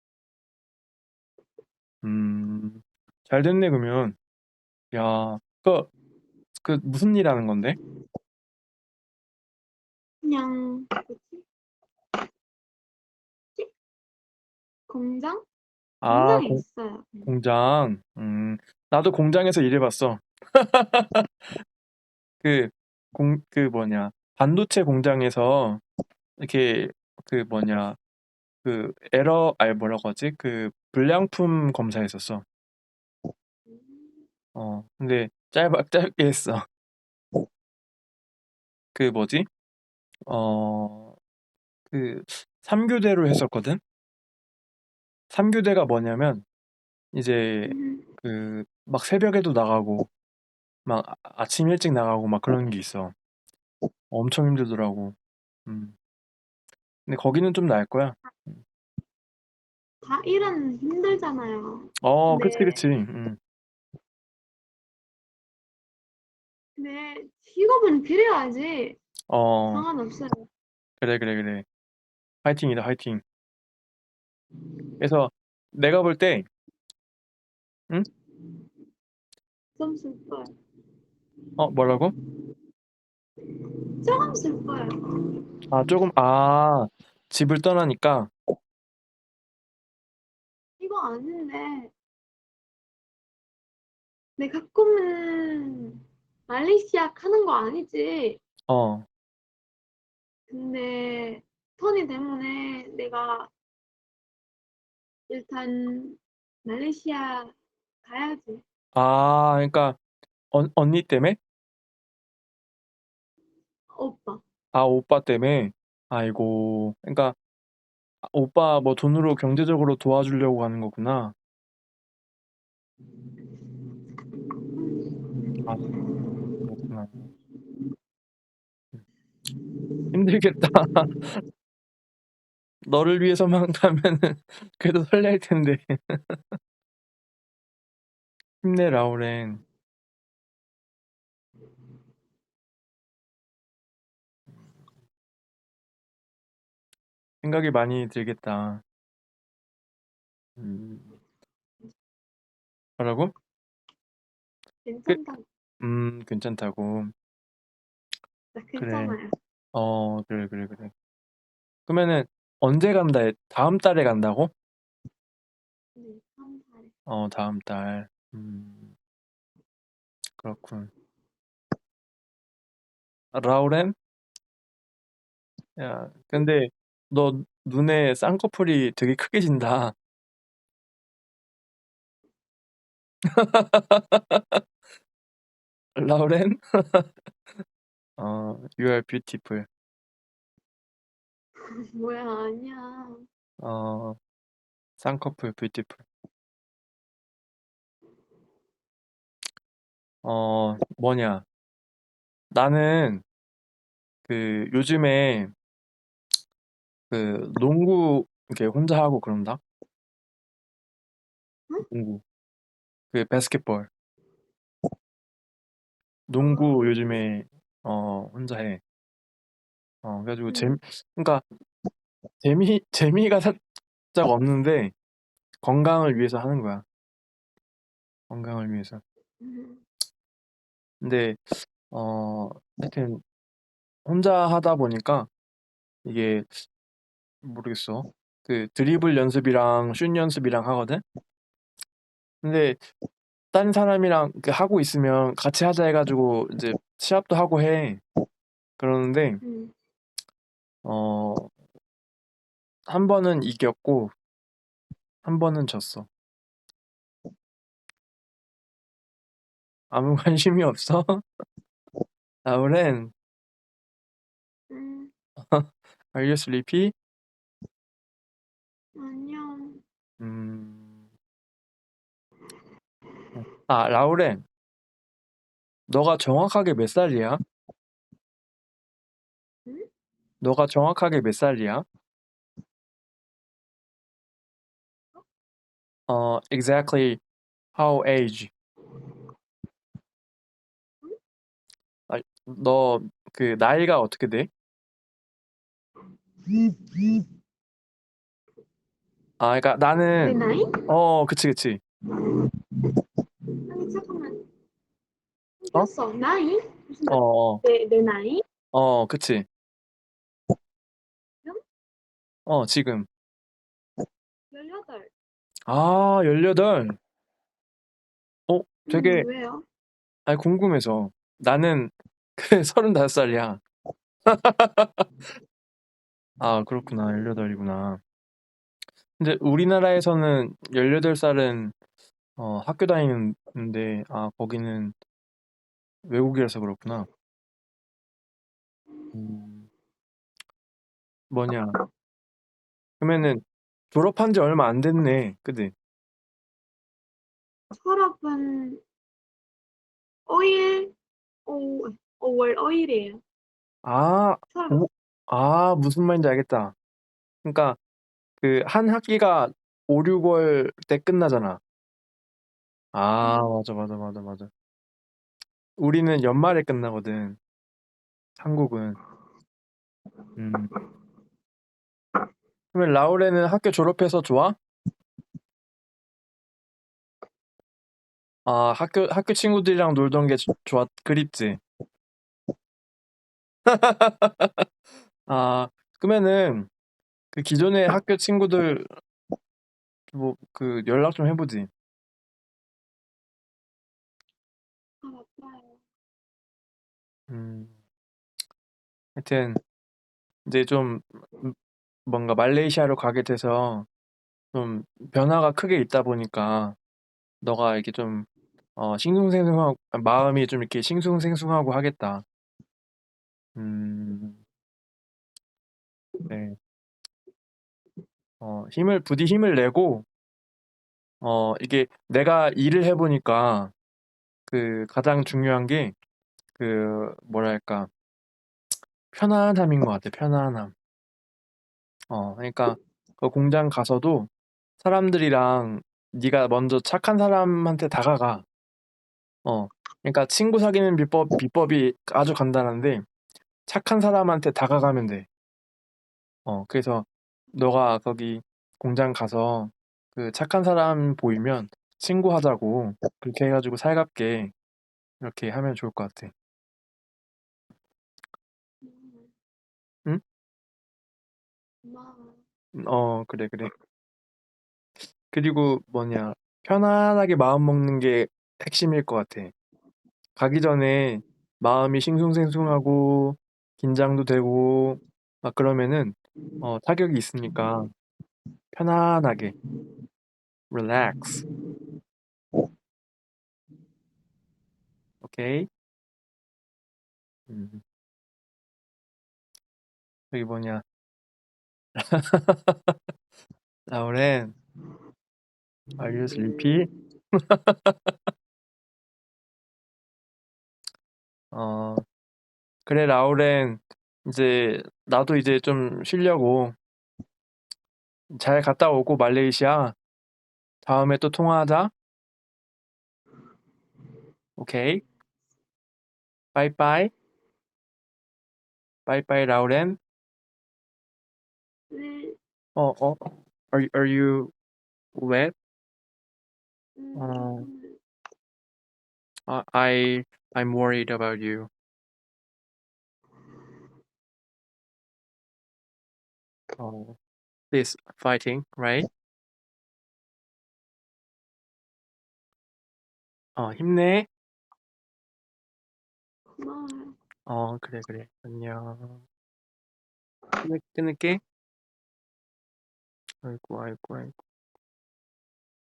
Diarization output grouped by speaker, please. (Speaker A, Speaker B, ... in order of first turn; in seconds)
Speaker A: 2.0-4.2, 4.9-5.9, 6.6-7.8, 16.0-16.6, 17.2-21.6, 22.4-25.8, 26.4-28.0, 28.6-32.4, 34.5-36.6, 38.9-39.5, 40.3-41.1, 41.9-43.8, 45.3-46.5, 47.1-50.1, 50.9-53.1, 54.1-56.0, 57.1-58.6, 62.0-63.4, 69.3-69.9, 71.0-71.7, 72.4-73.2, 75.0-76.5, 81.6-82.1, 85.7-88.3, 98.7-99.1, 108.9-110.0, 110.5-111.4, 114.7-117.4, 118.2-121.3, 125.6-125.9, 126.6-127.3, 130.1-131.4, 132.8-136.6, 138.6-139.6, 147.4-148.8, 150.6-151.2, 153.0-153.3, 155.8-157.1, 158.8-159.2, 159.7-160.9, 161.9-164.5, 167.1-168.9, 170.4-170.9, 173.3-174.0, 175.8-179.9, 183.3-184.6, 185.9-187.1, 188.2-189.7, 193.6-194.2, 195.0-196.1, 200.2-201.4, 202.5-203.2, 204.2-205.5, 207.1-209.6, 211.9-212.2, 213.1-213.9, 216.3-218.8, 220.0-221.4, 222.4-224.9, 225.6-226.8, 228.3-229.0, 231.0-233.2, 234.0-235.3, 236.0-236.7, 237.4-241.0, 242.4-242.9, 243.5-248.0, 248.8-249.4, 250.8-251.5, 252.9-254.1, 255.2-256.1, 259.9-261.2, 262.4-263.1, 265.4-266.9, 270.2-271.0, 273.4-274.4, 275.9-277.4, 280.4-281.8, 286.1-287.2, 287.7-288.5, 292.1-294.5, 299.4-301.8, 307.1-307.6, 308.7-309.5, 312.4-313.1, 315.7-317.0, 318.5-319.3, 320.2-323.6, 324.2-325.1, 326.4-328.0, 329.2-331.7, 332.4-334.9, 336.1-337.1, 339.1-339.7, 341.3-341.8, 343.0-345.7, 353.8-356.7, 357.4-357.8, 358.4-361.6, 362.9-364.5, 365.8-367.4, 368.4-369.0, 370.4-370.7, 372.7-374.6, 378.4-381.6, 383.6-384.7, 385.3-386.7, 387.3-389.0, 390.1-391.7, 397.3-397.8, 399.1-399.6, 400.4-403.9, 404.5-406.8, 407.4-412.2, 413.6-414.4, 416.3-416.6, 418.4-420.1, 421.2-423.7, 424.5-425.9, 426.6-427.9, 429.1-430.7, 432.1-434.3, 434.8-438.4, 439.4-443.0, 443.7-445.3, 446.4-454.5, 455.2-456.3, 462.7-463.7, 465.3-469.5, 470.4-477.9, 478.7-479.5, 480.7-481.4, 485.2-485.7, 487.5-487.8, 490.3-490.8, 491.9-493.0, 493.9-494.5, 496.0-498.1, 501.5-502.0, 502.9-506.8, 508.3-509.9, 510.8-511.9, 514.6-515.0, 516.5-517.1, 519.0-520.0, 522.8-524.5, 525.1-525.5, 527.1-527.7, 529.5-531.7, 536.8-537.2, 537.7-539.1, 543.5-544.3, 547.5-549.2, 550.6-551.4, 553.4-554.4
Speaker B: 10.2-11.4, 14.9-15.4, 16.1-17.3, 33.7-34.2, 47.7-48.1, 60.0-62.8, 66.8-69.0, 69.7-70.5, 79.8-80.5, 84.0-84.9, 90.8-91.9, 94.4-98.4, 100.5-103.5, 105.3-108.6, 113.9-114.4, 124.8-126.5, 154.8-155.4, 158.6-159.3, 165.9-166.9, 191.9-193.2, 216.4-217.1, 220.5-220.8, 229.4-229.8, 249.4-249.7, 264.7-265.1, 268.9-269.8, 296.4-297.2, 300.2-300.8, 302.1-302.4, 303.7-304.4, 305.6-308.4, 314.5-315.1, 318.9-319.6, 347.7-348.8, 350.3-353.2, 354.5-354.8, 363.2-363.5, 395.0-395.8, 458.8-459.3, 461.8-462.4, 496.3-496.9, 521.9-522.4, 527.0-528.0, 546.6-547.1